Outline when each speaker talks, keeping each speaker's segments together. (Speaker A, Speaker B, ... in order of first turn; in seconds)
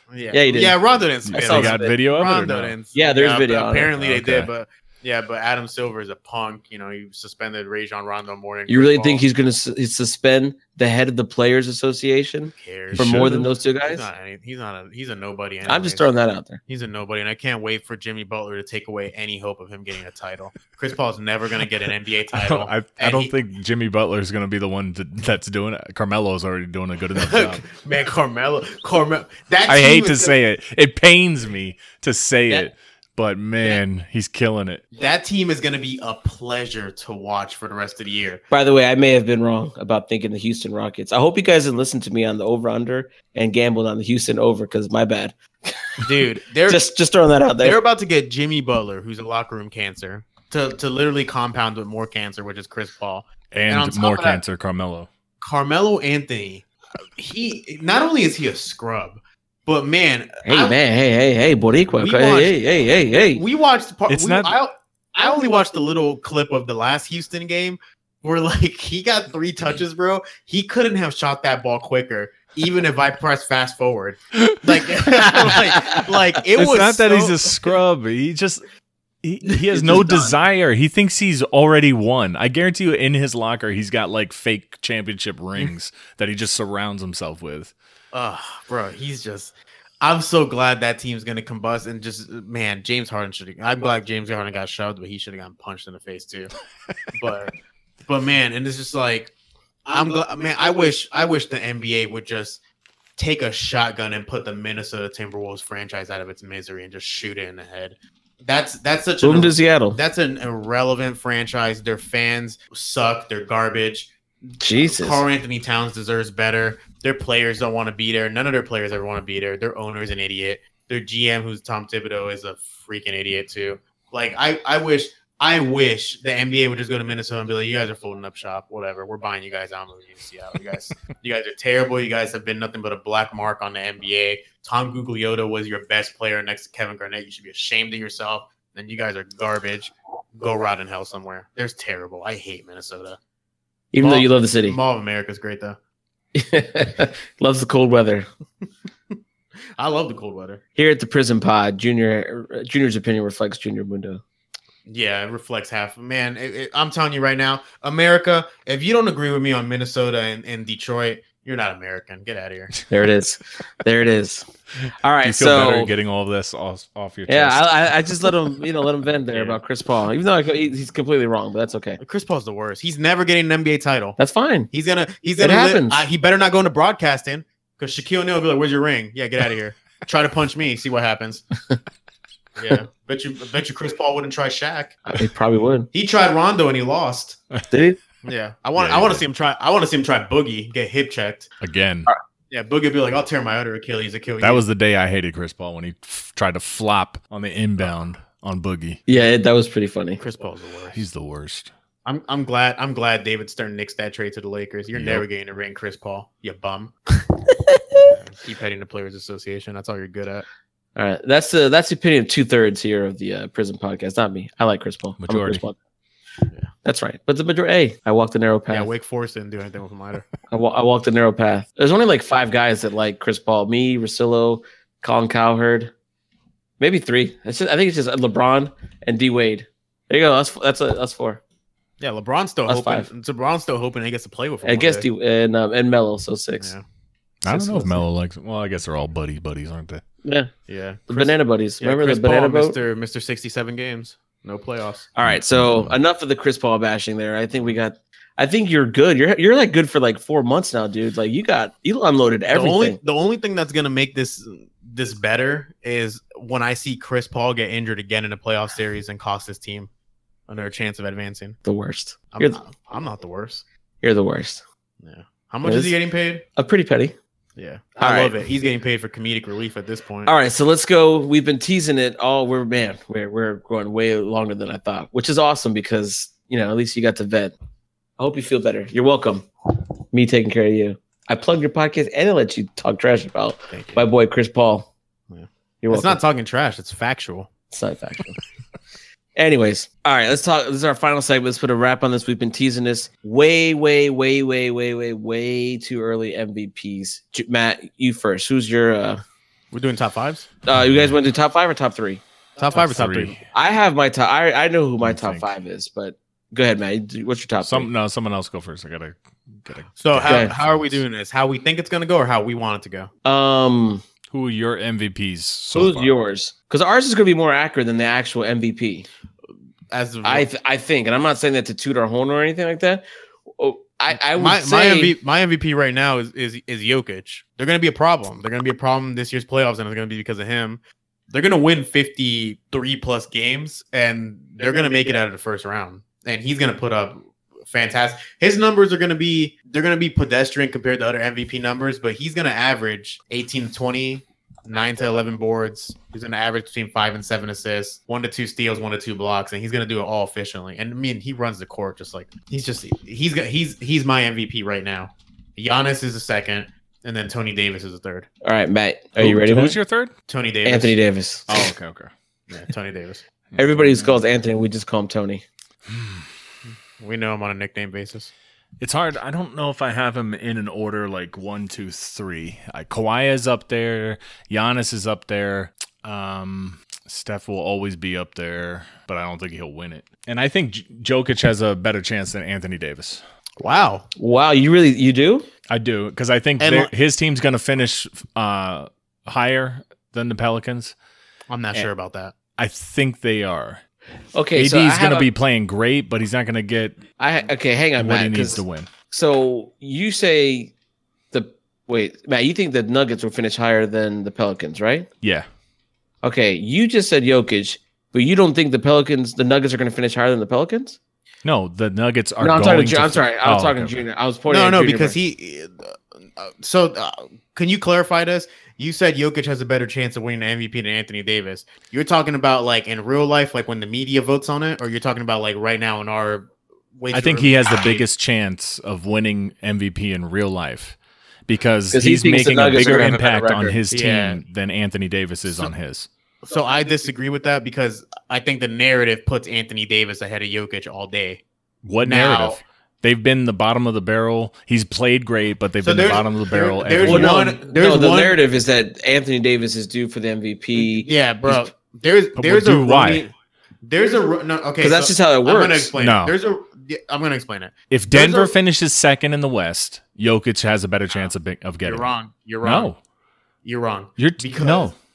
Speaker A: 0.1-9.2, 12.6-16.1, 16.6-23.3, 27.1-30.3, 34.9-38.4, 46.0-46.8, 47.6-54.4, 55.4-60.8, 61.9-77.7, 79.5-80.3, 88.1-96.5, 97.1-97.5, 98.1-99.3, 99.9-102.6, 103.2-143.2, 144.0-145.8, 149.8-150.6, 154.8-162.8, 172.0-174.2, 174.7-181.4, 182.6-185.0, 185.9-187.4, 188.2-191.5, 192.5-194.6, 200.2-201.0, 202.0-206.9, 208.1-210.4, 218.7-220.3, 232.0-235.1, 240.7-245.1, 252.5-259.9, 260.5-261.6, 262.3-263.6, 265.0-266.4, 267.6-270.3, 283.7-284.0, 285.3-287.5, 299.7-300.5, 302.6-303.4, 310.0-313.1, 319.9-320.5, 324.3-358.3, 360.3-361.0, 362.5-363.2, 367.0-368.3, 383.6-384.1, 386.6-386.9, 391.5-392.3, 414.5-428.0, 433.9-434.4, 436.4-441.4, 442.0-442.6, 445.8-448.4, 450.7-453.3, 453.8-458.5, 461.8-462.9, 463.6-464.9
Speaker B: 0.3-0.8, 1.3-1.9, 2.9-4.0, 8.7-14.1, 15.7-16.6, 38.5-46.0, 46.7-47.8, 60.4-63.4, 109.2-110.0, 114.6-115.2, 143.9-144.8, 146.3-148.2, 150.8-154.2, 162.9-164.5, 165.0-165.9, 167.3-172.0, 174.2-174.7, 175.4-176.0, 185.1-185.9, 187.7-188.0, 199.1-200.2, 207.7-208.0, 210.9-215.8, 216.8-218.9, 220.5-225.9, 226.8-231.4, 232.7-233.1, 234.6-236.7, 237.5-238.0, 240.2-240.5, 241.1-242.8, 245.1-253.0, 261.6-262.6, 264.0-264.6, 265.6-265.9, 266.6-267.1, 268.0-268.4, 270.2-277.5, 278.2-279.5, 280.1-284.9, 285.8-286.2, 287.7-288.4, 289.4-299.2, 300.6-302.2, 303.5-307.9, 310.2-310.5, 313.2-314.0, 315.7-319.1, 320.2-323.0, 323.6-325.1, 358.4-359.8, 360.6-361.7, 363.6-365.4, 384.1-385.5, 394.3-395.3, 397.2-400.7, 401.3-405.1, 406.2-411.0, 412.4-415.1, 431.9-433.8, 447.0-451.6, 454.8-455.9
Speaker C: 1.2-2.7, 4.0-4.5, 12.9-13.5, 22.3-27.6, 29.7-34.8, 53.5-55.1, 64.1-64.5, 75.1-75.6, 76.5-78.6, 79.2-87.7, 165.2-167.7, 188.8-189.2, 191.6-192.1, 194.4-199.0, 200.9-201.7, 204.9-205.2, 215.2-215.6, 237.4-240.0, 245.3-245.9, 300.7-301.1, 302.7-303.4, 305.0-305.5, 307.6-311.0, 314.3-316.1, 359.2-360.1, 361.5-362.1, 363.5-364.1, 365.9-366.2, 368.8-383.2, 385.7-390.9, 392.6-393.8, 394.5-397.0, 398.0-398.9, 411.4-414.0, 427.1-436.1, 441.8-447.4, 452.4-453.2, 455.9-456.4, 457.9-462.0, 462.6-463.0, 464.2-464.9